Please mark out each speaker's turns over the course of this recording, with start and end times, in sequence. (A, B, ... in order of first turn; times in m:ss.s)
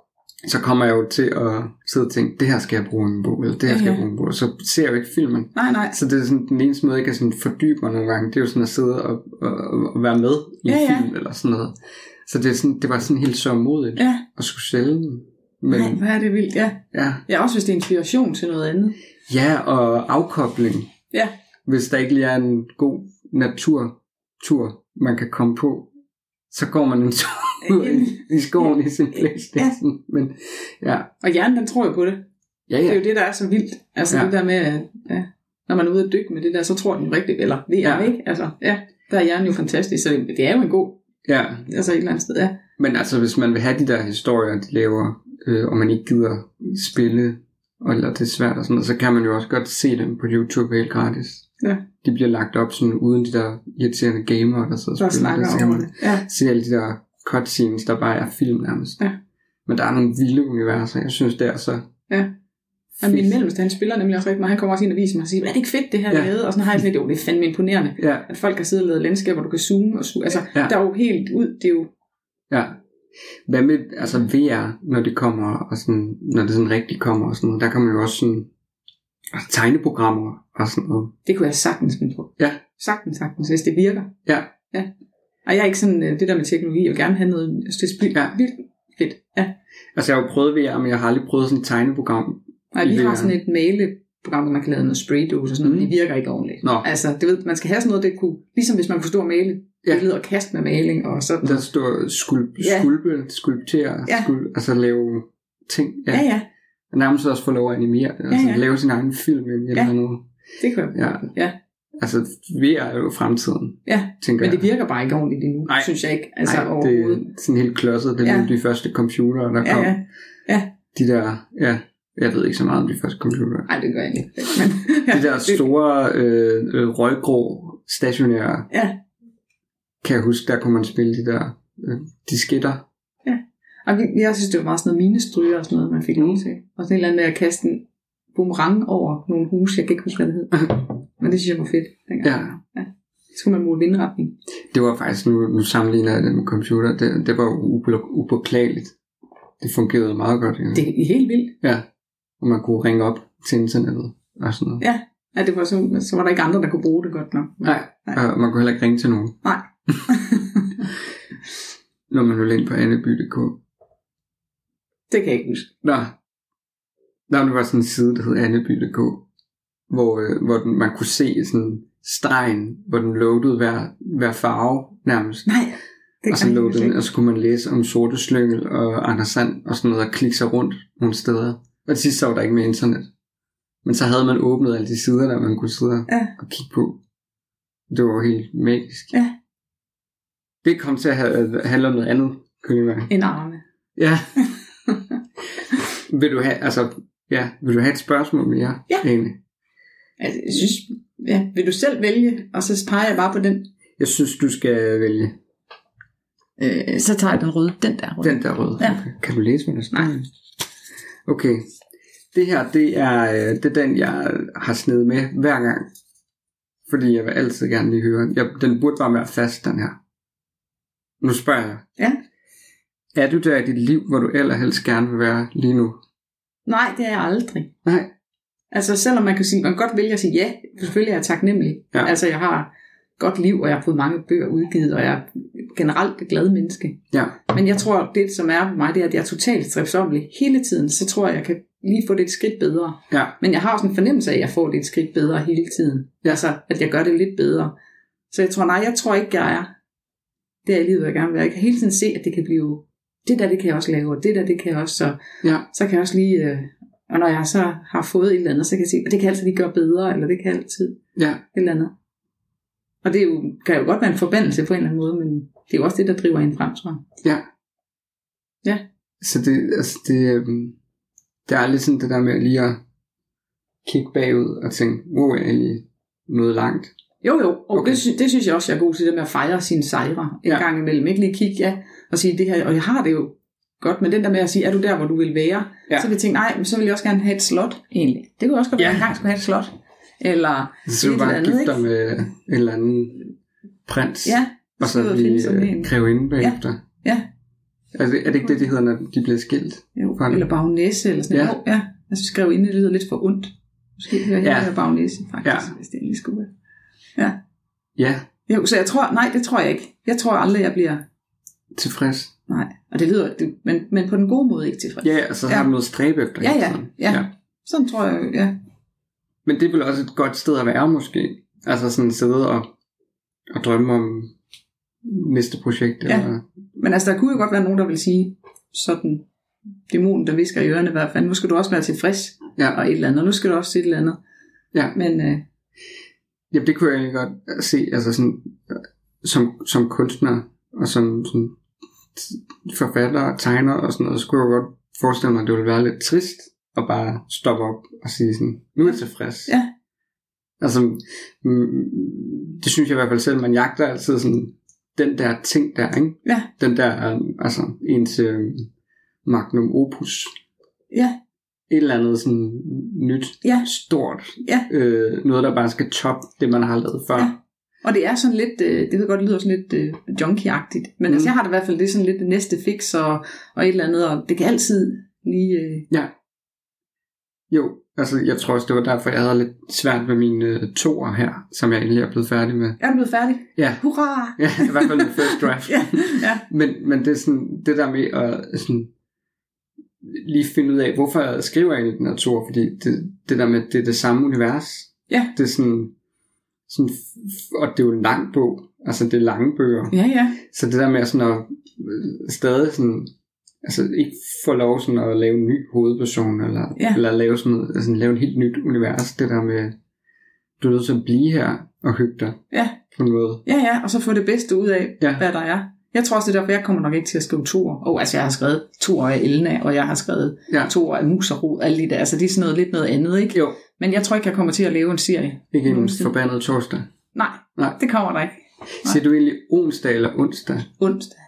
0:00.4-0:16.0 A
0:03.7-0:04.0 B
0:05.6-0:06.0 B
0:10.7-0:11.1 B
0:14.0-0:14.2 B
0:15.7-0:19.0 B
0:16.9-0:17.2 A
0:19.3-0:20.9 A
0:21.7-0:25.9 A
0:26.5-0:31.1 A
0:27.6-0:28.7 B
0:31.2-0:32.2 B
0:32.7-0:33.0 A
0:32.8-0:41.0 B
0:37.8-0:38.1 A
0:41.3-0:41.7 A
0:41.7-0:42.6 B
0:42.8-0:51.5 A
0:52.0-0:59.0 A
0:55.0-0:56.2 B
0:59.7-1:01.9 A
1:03.0-1:11.9 B
1:03.0-1:03.3 A
1:08.0-1:08.3 A
1:12.5-1:12.8 A
1:13.5-1:18.5 A
1:19.3-1:21.1 A
1:21.3-1:24.1 B
1:24.3-1:24.5 A
1:25.5-1:29.5 B
1:30.0-1:33.3 A
1:32.7-1:41.6 B
1:35.6-1:35.9 A
1:41.4-1:46.3 A
1:42.6-1:42.9 B
1:46.1-1:46.5 B
1:46.9-1:50.3 A
1:48.3-1:48.6 B
1:50.6-1:51.6 B
1:50.9-1:51.3 A
1:52.0-1:54.6 A
1:53.9-1:57.2 B
1:56.4-2:00.0 A
1:58.2-1:58.5 B
1:59.6-2:00.7 B
2:00.9-2:03.7 A
2:03.7-2:05.7 B
2:05.1-2:08.7 A
2:08.7-2:09.0 B
2:10.0-2:12.8 A
2:13.2-2:24.4 B
2:16.2-2:16.4 A
2:22.2-2:22.6 A
2:24.7-2:29.0 A
2:29.6-2:30.8 A
2:30.7-2:31.6 B
2:32.4-2:34.8 A
2:34.8-2:38.2 B
2:37.6-2:39.4 A
2:39.4-2:40.8 B
2:42.1-2:43.6 A
2:45.1-2:45.7 B
2:45.8-2:46.2 A
2:47.3-2:49.2 A
2:49.9-2:55.5 A
2:55.5-2:57.0 B
2:56.3-3:03.1 A
3:03.8-3:07.0 A
3:07.9-3:09.1 A
3:10.6-3:13.1 A
3:13.1-3:13.6 B
3:14.0-3:14.3 A
3:16.1-3:19.4 A
3:20.2-3:23.7 B
3:24.0-3:25.4 A
3:26.6-3:29.0 B
3:28.2-3:30.3 A
3:31.3-3:31.6 A
3:32.3-3:35.9 A
3:36.9-3:40.0 A
3:41.2-3:41.8 A
3:43.1-3:46.0 A
3:46.7-3:47.7 B
3:47.8-3:48.1 A
3:48.7-4:07.7 B
3:57.1-3:57.4 A
4:08.3-4:09.7 B
4:10.6-4:21.0 B
4:21.2-4:21.4 A
4:21.5-4:21.9 B
4:23.0-4:27.0 B
4:29.2-4:30.8 A
4:31.5-4:32.8 A
4:33.8-4:36.9 A
4:37.2-4:51.8 B
4:37.7-4:38.0 A
4:48.8-4:49.1 A
4:50.9-4:53.3 A
4:53.9-4:56.8 A
4:54.2-4:57.3 B
4:57.9-5:00.4 A
5:00.0-5:06.5 B
5:01.3-5:01.6 A
5:04.4-5:04.7 A
5:05.4-5:05.7 A
5:08.0-5:08.3 A
5:08.5-5:11.0 B
5:11.8-5:12.3 A
5:12.5-5:15.7 B
5:15.0-5:17.3 A
5:16.4-5:18.6 B
5:19.4-5:22.7 A
5:23.5-5:24.3 A
5:25.0-5:26.4 A
5:26.1-5:29.2 B
5:29.9-5:34.2 B
5:34.9-5:35.4 B
5:36.5-5:41.6 A
5:42.2-5:49.5 A
5:50.6-5:58.7 A
5:59.2-6:00.3 A
6:00.9-6:01.2 B
6:01.7-6:07.4 A
6:03.4-6:03.7 B
6:04.4-6:04.7 B
6:07.2-6:15.9 B
6:17.5-6:22.8 A
6:22.8-6:26.4 B
6:23.6-6:23.8 A
6:24.4-6:28.9 A
6:30.0-6:35.9 A
6:35.1-6:35.3 B
6:36.7-6:43.1 A
6:39.9-6:40.4 B
6:43.6-6:49.8 A
6:46.8-6:47.0 B
6:50.6-6:52.4 A
6:52.5-6:52.8 B
6:52.9-6:53.4 A
6:53.4-7:06.1 B
7:03.3-7:03.6 A
7:05.5-7:06.9 A
7:07.1-7:09.0 B
7:08.8-7:10.7 A
7:10.8-7:11.2 B